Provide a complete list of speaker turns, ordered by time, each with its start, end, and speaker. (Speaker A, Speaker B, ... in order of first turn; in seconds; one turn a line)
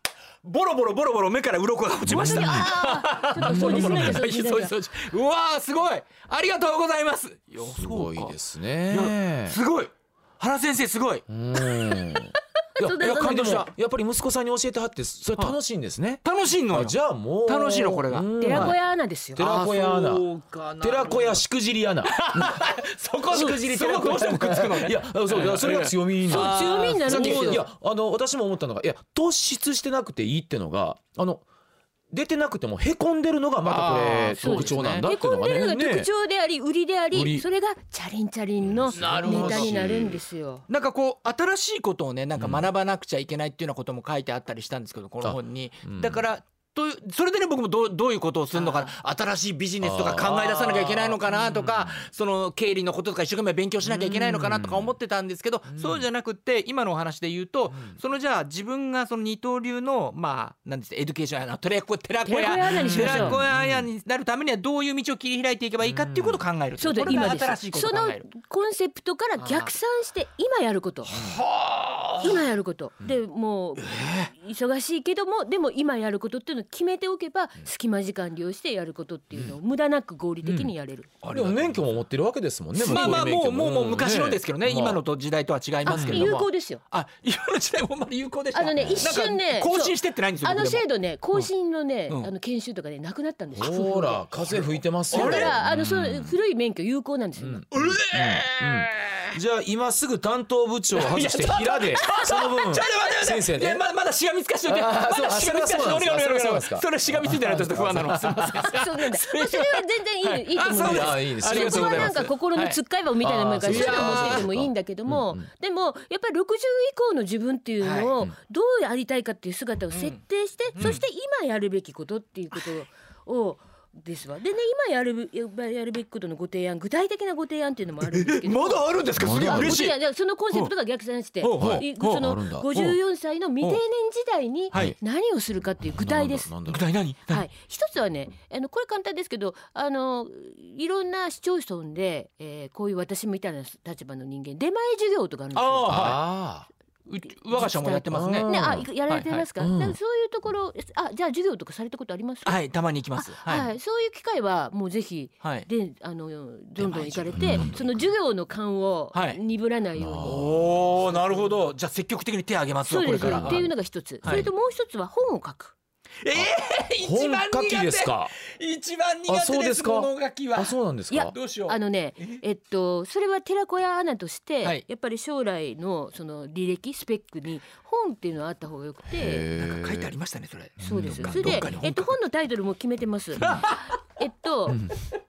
Speaker A: 0.4-8.4
Speaker B: 2.0-2.7
Speaker C: 2.1-4.7
Speaker B: 3.4-4.2
Speaker B: 7.6-9.6
Speaker A: 8.9-11.9
Speaker B: 11.3-18.8
Speaker C: 12.8-13.7
Speaker A: 13.0-13.7
Speaker A: 16.2-18.7
Speaker C: 18.4-19.4
Speaker B: 19.3-22.7
Speaker A: 19.4-21.4
Speaker A: 22.1-27.6
Speaker B: 23.2-31.4
Speaker C: 26.2-27.6
Speaker B: 32.1-36.1
Speaker A: 33.6-35.1
Speaker C: 34.4-40.6
Speaker B: 37.1-37.5
Speaker B: 38.6-40.2
Speaker A: 38.9-40.0
Speaker A: 40.7-68.2
Speaker B: 42.4-42.7
Speaker B: 45.2-46.2
Speaker C: 48.5-48.9
Speaker B: 49.8-52.0
Speaker B: 53.8-55.0
Speaker B: 55.7-56.0
Speaker B: 57.7-58.0
Speaker C: 62.2-63.4
Speaker B: 62.8-63.9
Speaker B: 65.8-66.4
Speaker C: 66.8-71.2
Speaker A: 69.4-69.7
Speaker A: 71.1-72.4
Speaker B: 71.1-71.4
Speaker C: 72.2-81.1
Speaker A: 73.8-74.3
Speaker B: 80.4-80.7
Speaker A: 81.2-81.8
Speaker B: 81.3-85.0
Speaker A: 82.8-91.5
Speaker C: 82.8-83.2
Speaker C: 85.8-86.8
Speaker B: 85.9-86.3
Speaker C: 88.5-94.3
Speaker B: 88.8-89.1
Speaker B: 93.5-96.3
Speaker A: 94.5-95.5
Speaker C: 95.1-97.6
Speaker B: 97.4-103.8
Speaker A: 97.7-99.4
Speaker A: 100.9-112.8
Speaker B: 104.7-108.7
Speaker C: 108.6-136.5
Speaker B: 110.8-112.3
Speaker B: 113.2-115.4
Speaker A: 113.6-114.5
Speaker A: 117.8-118.1
Speaker A: 119.9-120.2
Speaker A: 120.7-121.0
Speaker A: 128.0-130.0
Speaker B: 129.2-129.9
Speaker A: 131.4-133.0
Speaker B: 131.6-132.7
Speaker A: 134.7-134.9
Speaker B: 135.8-136.8
Speaker A: 136.7-137.4
Speaker C: 137.3-146.2
Speaker A: 145.5-146.2
Speaker B: 145.9-146.7
Speaker A: 147.1-148.5
Speaker C: 147.5-152.6
Speaker B: 148.1-148.9
Speaker A: 149.1-149.4
Speaker B: 149.6-150.0
Speaker A: 152.4-153.7
Speaker C: 153.2-161.5
Speaker A: 155.4-155.7
Speaker A: 156.8-157.8
Speaker B: 157.3-158.0
Speaker A: 159.1-159.4
Speaker B: 160.0-161.0
Speaker A: 160.2-163.7
Speaker C: 162.8-165.7
Speaker B: 163.1-163.7
Speaker B: 164.2-164.5
Speaker A: 164.2-164.5
Speaker A: 166.2-170.8
Speaker B: 167.0-168.3
Speaker B: 169.3-171.3
Speaker C: 171.1-179.5
Speaker A: 171.3-172.4
Speaker B: 179.1-180.1
Speaker A: 179.6-182.2
Speaker B: 180.8-181.8
Speaker C: 180.8-184.9
Speaker A: 183.4-183.9
Speaker B: 184.7-184.9